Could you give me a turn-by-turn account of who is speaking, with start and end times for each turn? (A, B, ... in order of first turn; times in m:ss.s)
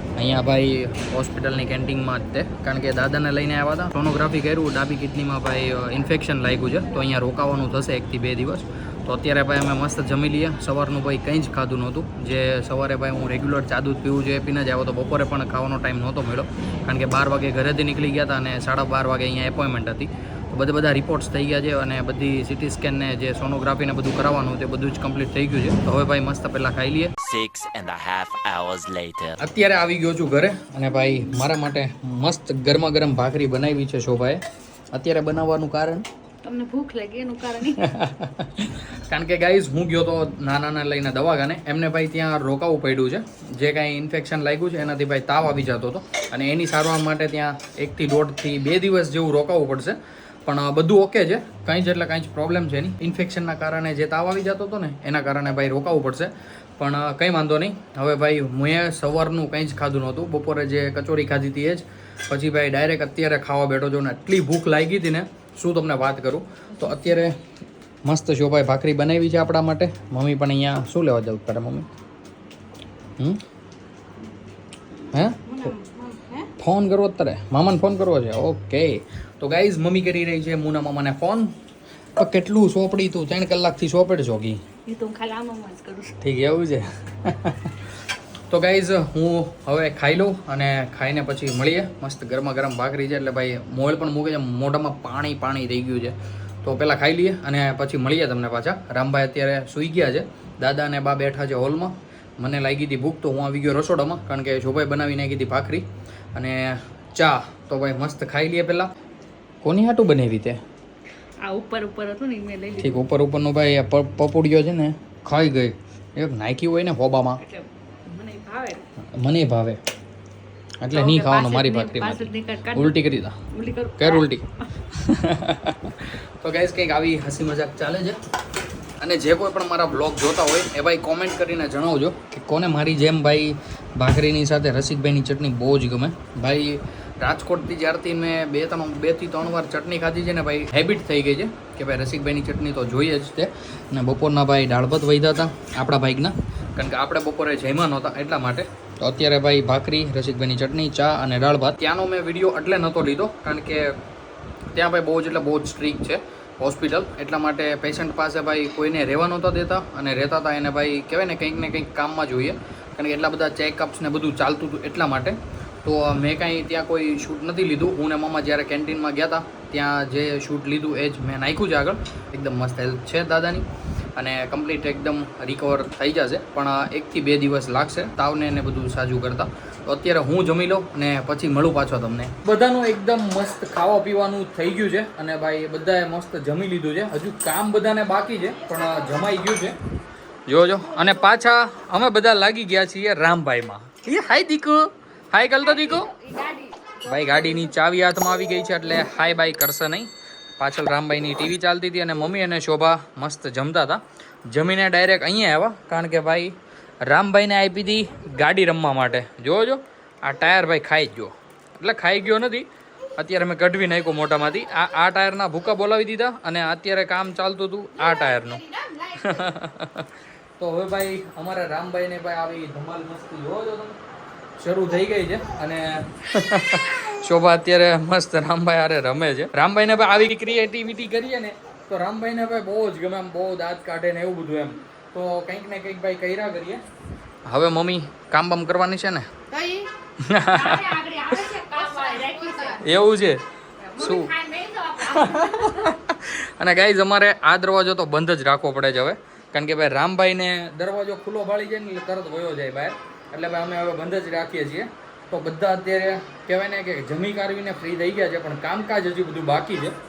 0:00.2-0:27.1 A
0:27.2-0:29.4 B
0:29.4-0:34.4 A
0:34.9-0:36.1 A
0:36.4-0:37.9 C
0:37.8-1:07.4 A
1:08.0-1:11.9 A
1:15.1-1:15.8 A
1:15.4-1:16.5 C
1:16.6-1:21.5 A
1:22.2-1:24.6 A
1:24.9-1:26.2 C
1:26.2-1:27.8 A
1:28.5-1:48.9 A
1:49.6-1:50.6 A
1:51.4-1:53.0 C
1:52.8-1:57.4 A
1:57.4-1:58.8 C
1:59.2-1:59.8 A
2:00.8-2:03.4 A
2:00.9-2:04.3 C
2:04.0-2:08.2 A
2:09.0-2:34.0 A
2:34.7-3:09.8 A
3:08.6-3:09.0 C
3:10.5-3:16.1 A
3:15.6-3:17.8 C
3:17.0-3:38.6 A
3:38.0-3:39.5 C
3:39.2-3:44.0 A
3:44.6-3:56.8 A
3:57.5-3:59.3 A
3:59.5-3:59.8 C
4:00.2-4:01.0 A
4:00.5-4:02.8 C
4:02.8-4:03.4 A
4:03.8-4:06.0 C
4:04.0-4:04.3 A
4:05.1-4:20.0 A